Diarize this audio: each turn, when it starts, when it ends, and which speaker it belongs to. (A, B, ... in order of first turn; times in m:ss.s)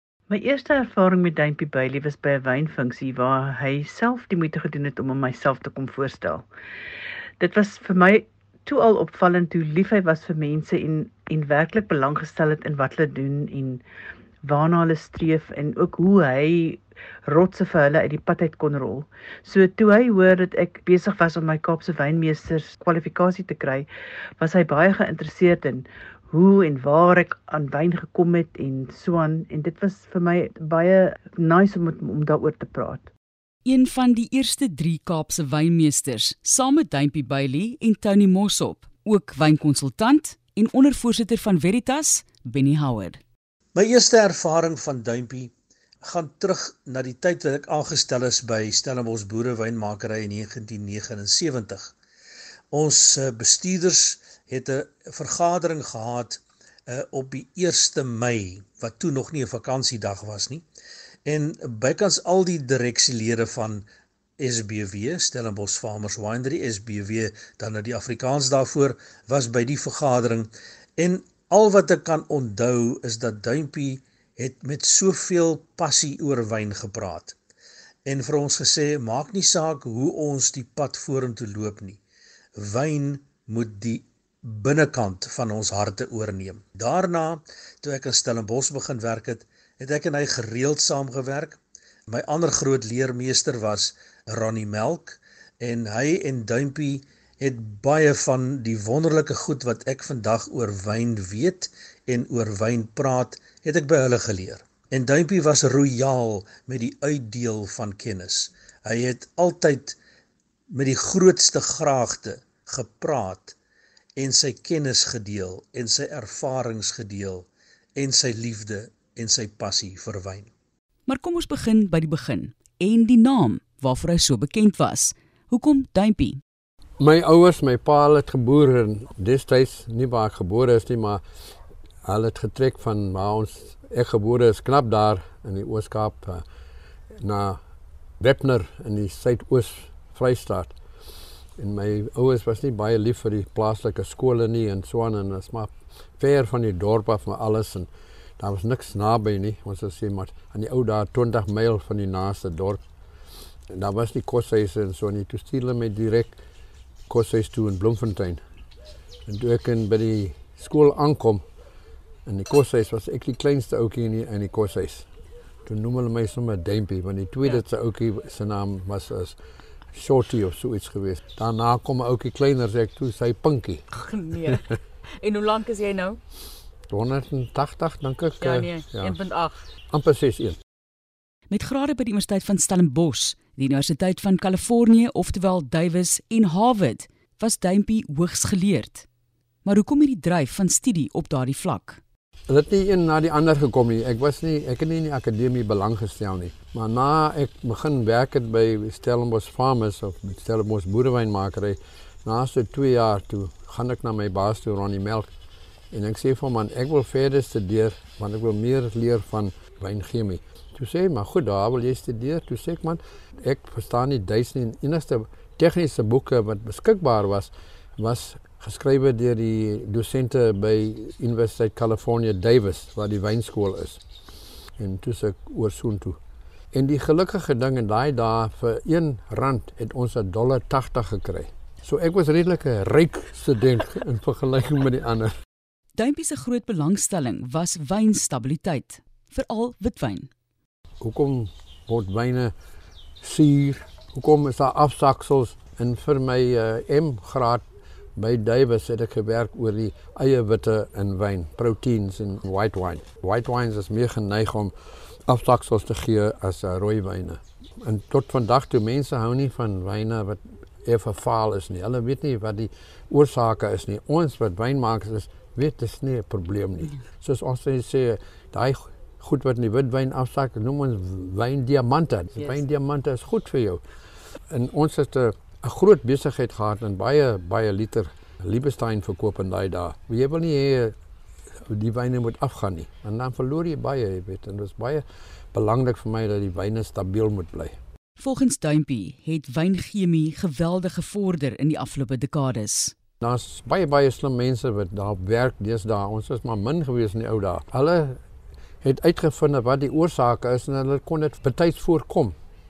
0:00.3-0:06.5 A
0:07.4-0:13.8 A
0:14.4-0:23.9 A
0:24.4-0:33.1 A
0:33.6-0:43.2 B
0:43.8-0:45.5 C
0:46.0-0:51.9 C
0:52.7-1:00.6 C
1:01.2-1:03.9 C
1:04.4-1:17.4 C
1:18.0-1:22.0 C
1:22.6-1:50.0 C
1:50.7-1:53.6 C
1:54.2-2:00.5 C
2:01.1-2:06.4 B
2:07.0-2:11.2 D
2:12.0-2:16.4 D
2:17.2-2:17.6 D
2:18.2-2:20.8 D
2:21.6-2:32.8 D
2:33.7-2:36.4 D
2:37.1-2:38.4 D
2:39.3-2:41.4 D
2:42.3-2:45.1 D
2:45.7-2:49.4 D
2:49.9-2:53.8 D
2:53.9-2:54.6 B
2:55.2-2:56.2 B
2:56.9-2:59.2 D
2:58.4-2:59.6 B
2:59.9-3:00.6 D
3:01.5-3:09.1 B
3:09.6-3:12.0 B
3:12.5-3:25.3 D
3:25.9-3:44.0 D
3:44.8-3:46.2 D
3:46.7-3:55.3 D
3:56.0-4:00.3 B
4:01.0-4:02.5 D
4:03.2-4:07.6 D
4:08.2-4:14.7 D
4:15.3-4:33.8 D
4:34.5-4:41.0 D
4:41.7-4:47.8 D
4:48.2-4:53.0 B
4:53.2-4:58.2 D
4:58.8-5:02.4 D